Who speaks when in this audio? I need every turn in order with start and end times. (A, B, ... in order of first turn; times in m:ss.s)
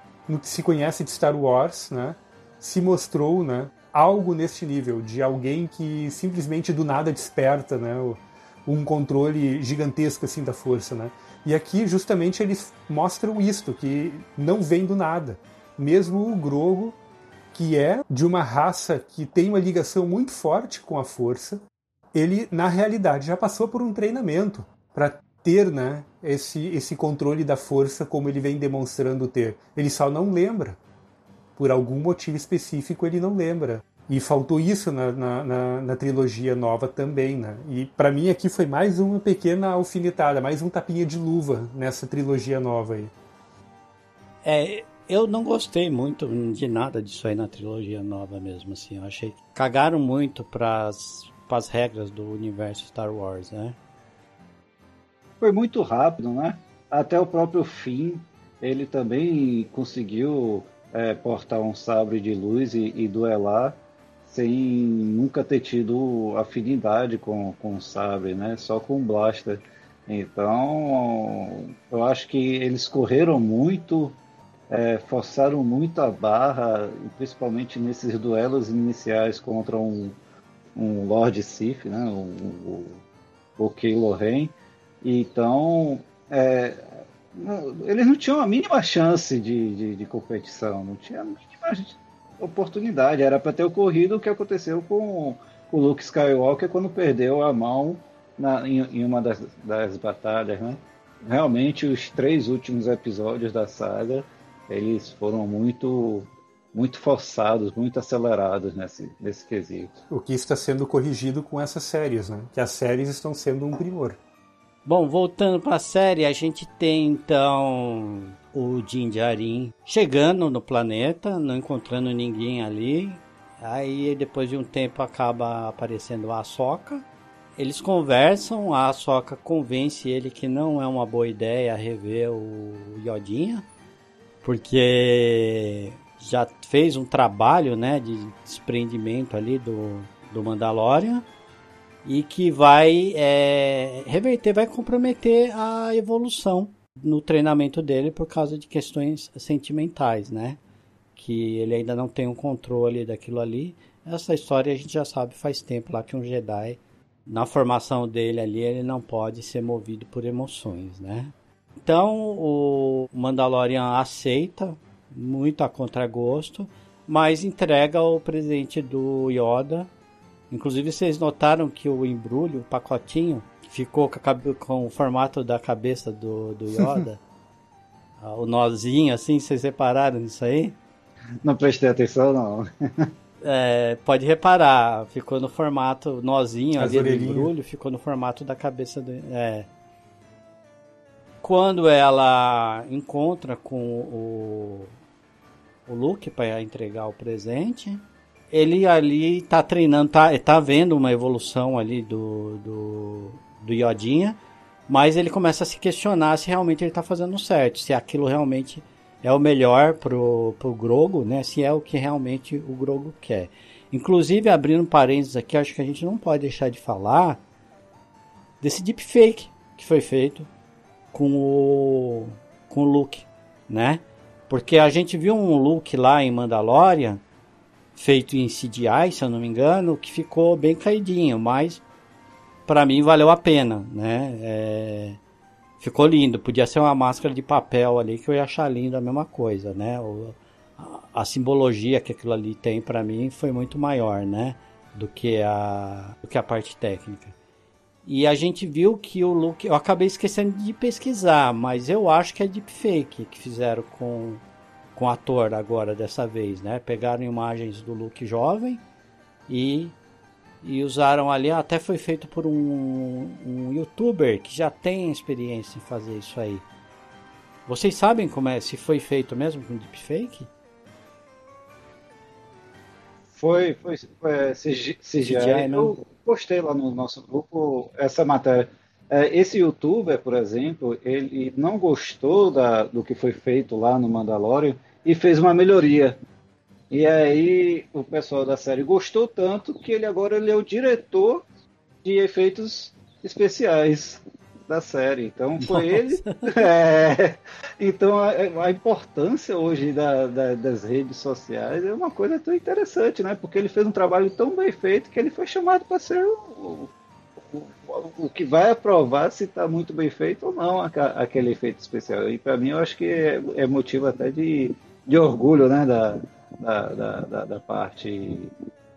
0:00.3-0:17.0 A
0:17.5-0:21.6 A
0:22.1-0:30.8 A
0:31.6-0:43.1 A
0:44.4-0:53.8 B
0:55.4-1:03.8 C
1:04.3-1:14.2 C
1:14.7-1:20.2 C
1:20.8-1:23.0 C
1:23.6-1:49.9 C
1:50.1-1:54.2 A
1:54.9-2:07.1 B
2:07.6-2:13.7 B
2:14.4-2:21.3 B
2:22.0-2:30.6 B
2:31.2-2:41.3 B
2:41.8-2:49.9 B
2:50.5-2:57.2 B
2:58.2-3:00.8 B
3:01.4-3:03.1 C
3:03.4-3:09.7 B
3:06.8-3:07.5 A
3:11.4-3:14.9 B
3:15.9-3:37.4 B
3:38.6-3:40.5 B
3:41.1-3:47.2 B
3:48.0-3:51.8 B
3:52.7-3:55.2 B
3:55.8-4:07.4 B
4:08.1-4:14.4 B
4:15.0-4:18.8 B
4:19.5-4:20.0 B
4:20.6-4:26.7 B
4:27.7-4:30.5 B
4:33.4-4:46.2 C
4:35.2-4:35.9 B
4:46.9-4:51.4 C
4:52.0-5:06.9 C
4:55.6-4:56.7 B
5:07.5-5:18.5 C